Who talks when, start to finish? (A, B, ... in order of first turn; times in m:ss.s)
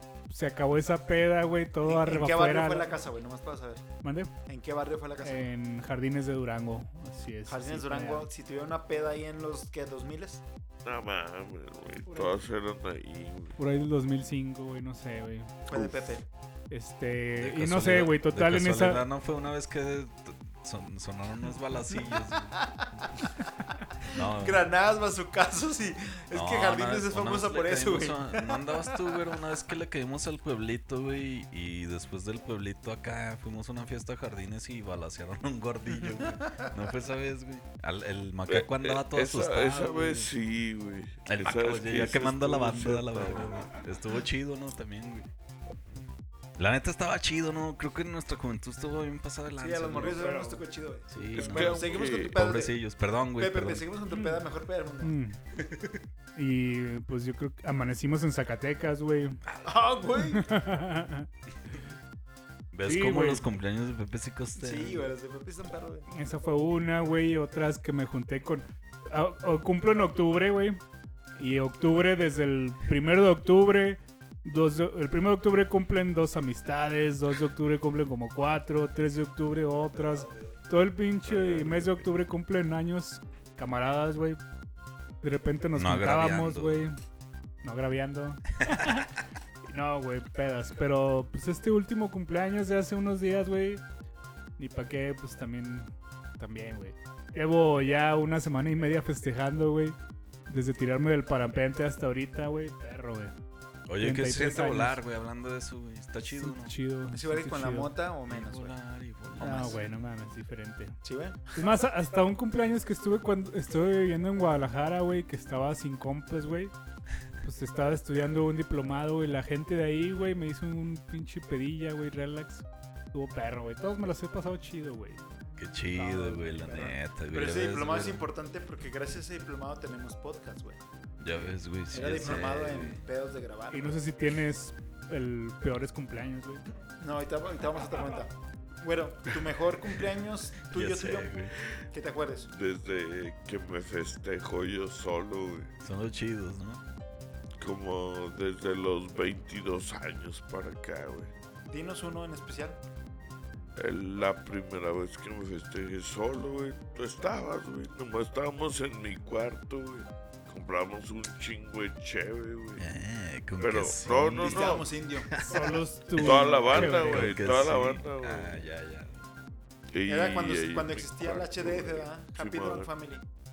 0:00.3-0:02.9 A
0:01.8-0:03.8 B
0:04.0-0:04.3 A
0:04.5-0:05.5 B
0:05.2-0:08.3 A
0:07.5-0:10.4 B
0:10.8-0:13.6 C
0:12.1-0:12.4 A
0:13.6-0:15.5 A
0:15.7-0:16.3 B
0:15.7-0:16.1 C
0:16.7-0:19.0 A
0:17.4-0:23.1 D
0:22.5-0:23.2 B
0:24.0-0:24.7 D
0:24.1-0:29.1 B
0:26.3-0:40.3 D
0:36.0-0:36.7 B
0:38.5-0:43.7 C
0:41.3-0:45.3 D
0:46.6-0:50.2 D
0:49.6-0:52.8 B
0:50.0-0:50.6 A
0:51.1-0:53.8 D
0:51.3-0:52.4 C
0:53.4-0:55.2 B
0:54.1-0:54.4 A
0:55.0-0:55.4 A
0:56.4-0:59.4 A
0:59.6-1:00.5 B
1:00.2-1:01.3 A
1:02.7-1:05.1 D
1:02.8-1:03.4 A
1:04.6-1:06.1 B
1:06.1-1:10.8 A
1:11.4-1:24.4 A
1:21.3-1:22.0 C
1:25.2-1:27.0 A
1:25.8-1:26.9 D
1:27.6-1:29.1 A
1:28.6-1:28.9 D
1:29.7-1:33.8 A
1:34.6-1:40.0 A
1:40.5-1:43.4 A
1:43.9-1:46.8 D
1:44.0-1:45.0 A
1:46.3-1:47.9 A
1:47.1-1:48.8 B
1:48.3-1:49.8 D
1:49.4-1:51.0 A
1:51.0-1:51.6 B
1:51.5-1:56.7 A
1:57.4-2:05.2 A
2:05.6-2:08.3 D
2:06.0-2:06.6 A
2:06.5-2:10.8 B
2:11.2-2:13.0 D
2:11.9-2:14.0 B
2:13.7-2:16.6 A
2:17.0-2:21.4 B
2:19.8-2:21.5 D
2:21.9-2:22.5 B
2:22.5-2:25.7 C
2:25.8-2:26.8 D
2:27.6-2:31.3 C
2:31.7-2:32.8 B
2:33.8-2:42.8 C
2:42.8-2:49.2 D
2:43.6-2:44.9 C
2:44.4-2:45.3 B
2:45.4-2:47.3 A
2:46.2-2:48.7 C
2:49.9-2:52.9 C
2:50.1-2:53.2 B